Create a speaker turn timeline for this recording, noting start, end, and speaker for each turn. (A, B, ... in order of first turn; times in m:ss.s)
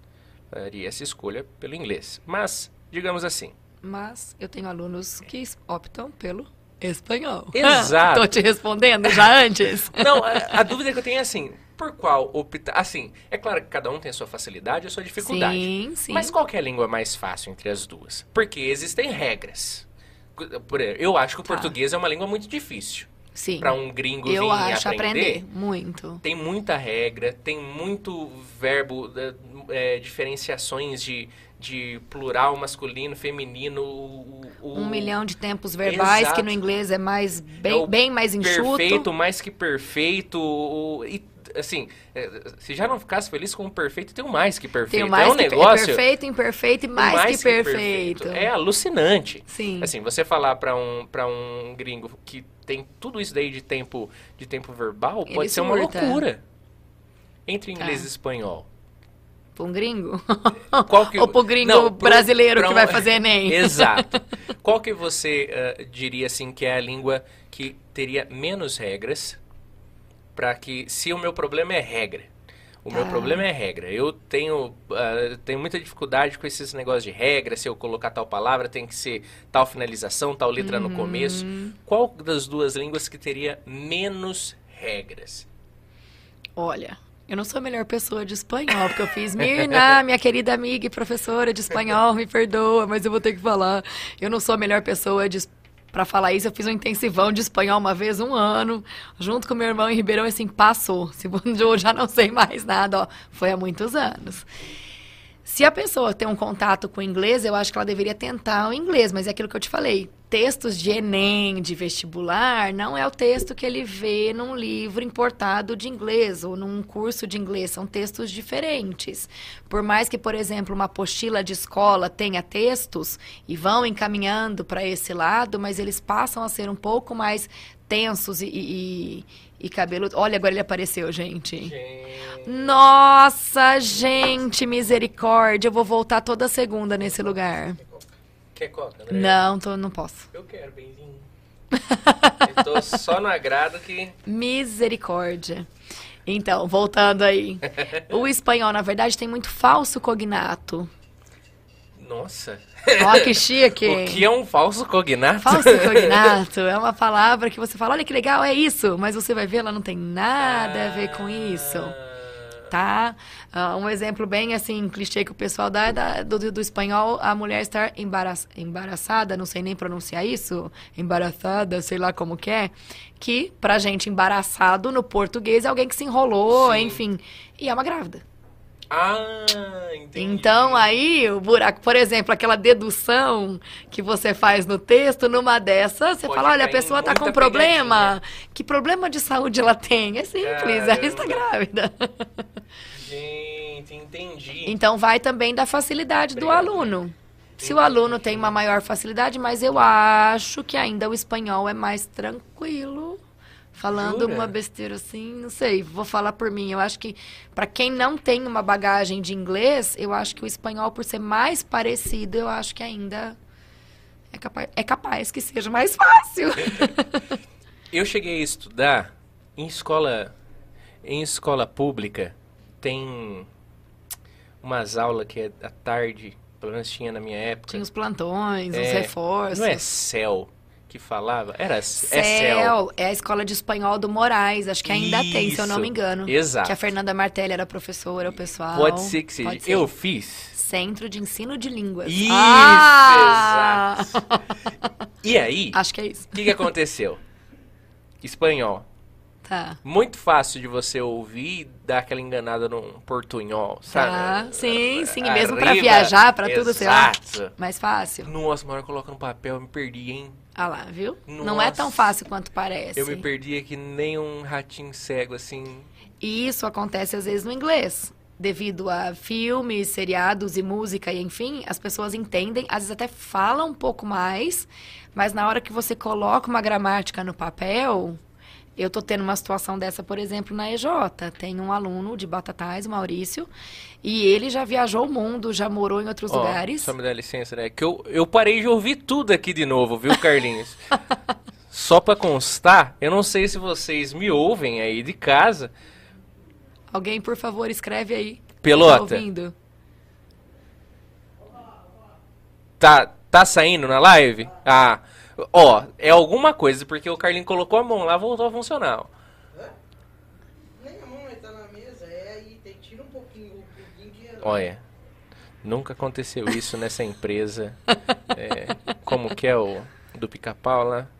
0:00.5-0:03.5 A
0:03.8-0:10.5 B
0:07.5-0:08.3 A
0:09.9-0:19.8 A
0:15.2-0:16.3 B
0:20.4-0:23.1 A
0:21.5-0:21.7 B
0:23.3-0:26.2 B
0:23.6-0:25.4 A
0:26.2-0:35.1 A
0:34.7-0:39.1 B
0:35.8-0:36.6 A
0:37.6-0:46.0 A
0:44.9-0:48.5 B
0:46.9-0:56.4 A
0:49.5-0:49.9 B
0:55.3-0:56.2 B
0:57.5-0:58.7 A
0:57.8-0:58.0 B
0:59.6-1:04.2 B
1:00.8-1:09.4 A
1:10.3-1:12.3 A
1:12.8-1:25.4 A
1:12.9-1:13.4 B
1:20.6-1:21.8 B
1:26.6-1:44.4 B
1:45.4-2:11.7 B
2:11.6-2:12.5 A
2:12.4-2:17.8 B
2:18.5-2:19.4 A
2:19.1-2:20.3 B
2:20.3-2:21.2 A
2:21.7-2:22.5 B
2:22.4-2:24.2 A
2:24.2-2:25.7 B
2:26.2-2:30.9 B
2:27.8-2:28.0 A
2:32.0-2:36.4 A
2:33.0-2:34.2 B
2:35.4-2:41.9 B
2:40.4-2:42.7 A
2:42.7-2:58.2 B
2:56.5-2:57.0 A
2:58.9-3:00.9 A
3:00.1-3:12.4 B
3:06.2-3:08.2 A
3:10.4-3:11.4 A
3:12.9-3:14.8 A
3:14.6-3:23.2 B
3:16.4-3:16.8 A
3:17.6-3:18.5 A
3:23.7-3:33.4 B
3:23.9-3:24.5 A
3:34.3-3:37.3 B
3:37.9-3:40.3 A
3:41.0-3:43.5 A
3:44.6-3:47.8 A
3:47.7-3:49.9 B
3:48.7-3:52.7 A
3:52.0-3:59.9 B
3:54.8-3:56.8 A
3:58.7-4:00.6 A
4:00.5-4:04.9 B
4:02.0-4:04.2 A
4:05.2-4:05.8 A
4:05.7-4:06.6 B
4:06.3-4:07.2 A
4:08.2-4:08.8 A
4:09.4-4:09.8 B
4:09.8-4:17.5 A
4:13.9-4:18.3 B
4:18.2-4:20.4 A
4:20.6-4:23.2 B
4:21.2-4:22.1 A
4:23.0-4:25.9 A
4:26.2-4:38.2 B
4:38.8-4:43.5 B
4:44.0-4:46.9 B
4:46.3-4:50.9 A
4:51.7-4:55.7 A
4:56.9-4:59.5 B
4:58.6-4:59.2 A
5:02.8-5:09.1 A
5:10.8-5:14.6 C
5:14.4-5:14.8 A
5:15.6-5:17.8 A
5:18.3-5:21.1 A